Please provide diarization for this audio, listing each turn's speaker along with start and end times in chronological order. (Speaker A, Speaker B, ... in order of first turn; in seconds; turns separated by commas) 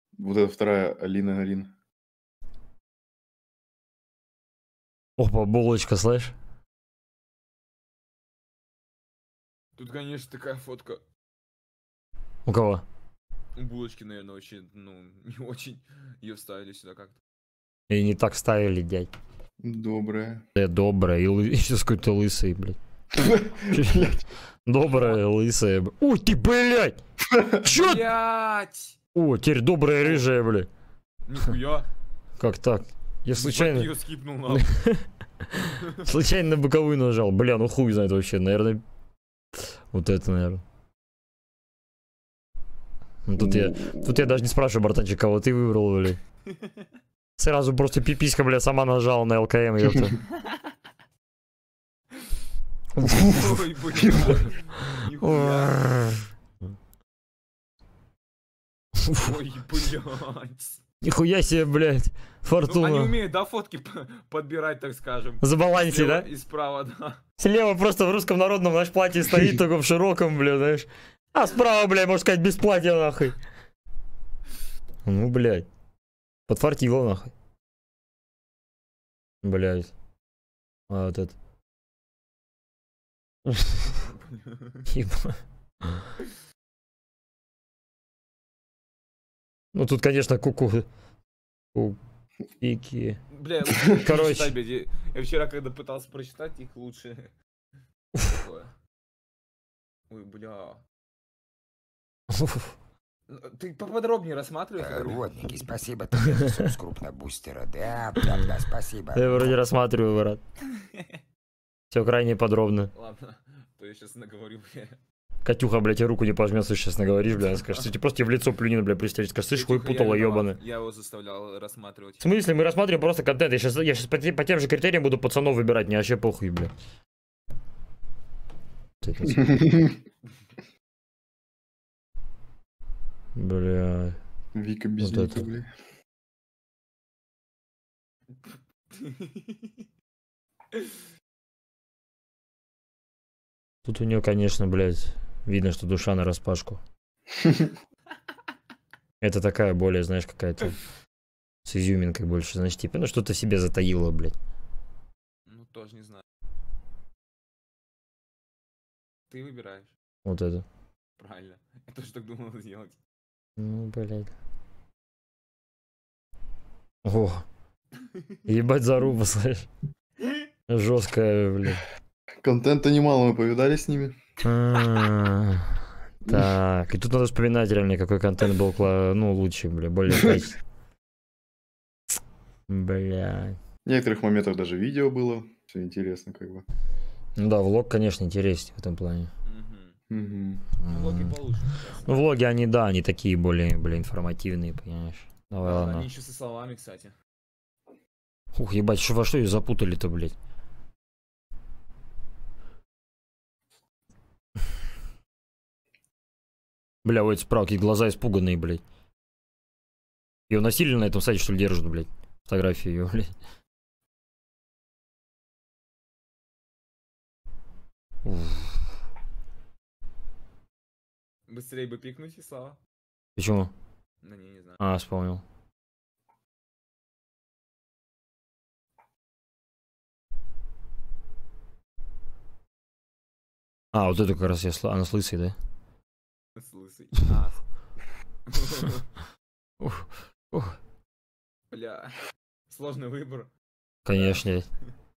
Speaker A: 0.1-1.7, Speaker B: 5.2-6.3, Speaker C: 9.8-11.0, Speaker B: 12.4-12.8, Speaker C: 13.6-17.2, Speaker B: 17.9-19.1, Speaker A: 19.6-20.4, Speaker B: 20.5-22.8, Speaker A: 23.1-24.2, Speaker B: 23.7-24.1, Speaker B: 24.6-27.0, Speaker A: 27.3-27.6, Speaker C: 27.6-29.0, Speaker B: 27.6-28.0, Speaker B: 29.1-30.7, Speaker C: 31.3-31.9, Speaker B: 32.4-33.9, Speaker C: 33.4-34.8, Speaker B: 34.5-35.1, Speaker B: 35.6-38.8, Speaker B: 39.9-40.6, Speaker B: 43.2-46.2, Speaker A: 43.4-44.3, Speaker C: 46.5-46.9, Speaker B: 47.4-50.2, Speaker B: 53.0-53.6, Speaker C: 53.1-55.8, Speaker A: 54.0-54.4, Speaker B: 54.9-56.2, Speaker B: 59.0-59.3, Speaker C: 59.1-60.8, Speaker B: 61.0-63.1, Speaker C: 62.6-67.2, Speaker B: 65.4-66.2, Speaker B: 67.4-73.4, Speaker B: 75.0-75.7, Speaker B: 76.5-77.3, Speaker B: 79.4-79.9, Speaker B: 80.9-81.3, Speaker B: 83.5-83.8, Speaker B: 84.9-86.1, Speaker B: 89.7-90.8, Speaker B: 92.6-93.2, Speaker C: 93.3-97.3, Speaker B: 94.0-94.5, Speaker C: 98.1-98.7, Speaker C: 100.1-100.8, Speaker B: 102.3-102.7, Speaker C: 103.3-105.2, Speaker D: 104.8-109.5, Speaker B: 109.1-110.4, Speaker C: 110.7-111.2, Speaker B: 111.9-112.9, Speaker C: 112.9-115.0, Speaker B: 115.4-120.6, Speaker C: 119.5-122.2, Speaker B: 122.2-126.7, Speaker B: 129.0-129.5, Speaker A: 129.3-129.9, Speaker B: 133.3-134.2, Speaker A: 134.5-135.7, Speaker B: 135.0-135.5, Speaker C: 138.5-139.8, Speaker B: 143.8-146.8, Speaker B: 149.2-150.8, Speaker B: 151.7-154.3, Speaker C: 155.5-156.2, Speaker C: 159.3-159.9, Speaker B: 160.2-160.7, Speaker C: 161.2-163.0, Speaker B: 163.6-164.3, Speaker B: 167.0-167.4, Speaker B: 168.4-169.7, Speaker B: 170.7-171.8, Speaker A: 172.4-174.1, Speaker B: 174.4-180.6, Speaker B: 182.7-183.6, Speaker A: 183.8-186.6, Speaker B: 187.4-189.3, Speaker C: 189.4-190.0, Speaker A: 190.1-190.6, Speaker B: 190.8-191.3, Speaker C: 190.9-192.2, Speaker B: 192.0-196.1, Speaker C: 195.6-197.1, Speaker B: 198.5-200.3, Speaker B: 207.0-208.8, Speaker B: 210.5-213.3, Speaker B: 218.2-218.8, Speaker C: 221.5-222.8, Speaker B: 223.4-223.7, Speaker C: 224.2-224.8, Speaker B: 224.8-225.4, Speaker B: 233.9-235.5, Speaker C: 236.6-237.6, Speaker C: 238.5-239.1, Speaker B: 239.8-240.8, Speaker C: 241.7-242.2, Speaker C: 242.7-243.5, Speaker B: 244.1-244.7, Speaker C: 244.1-244.4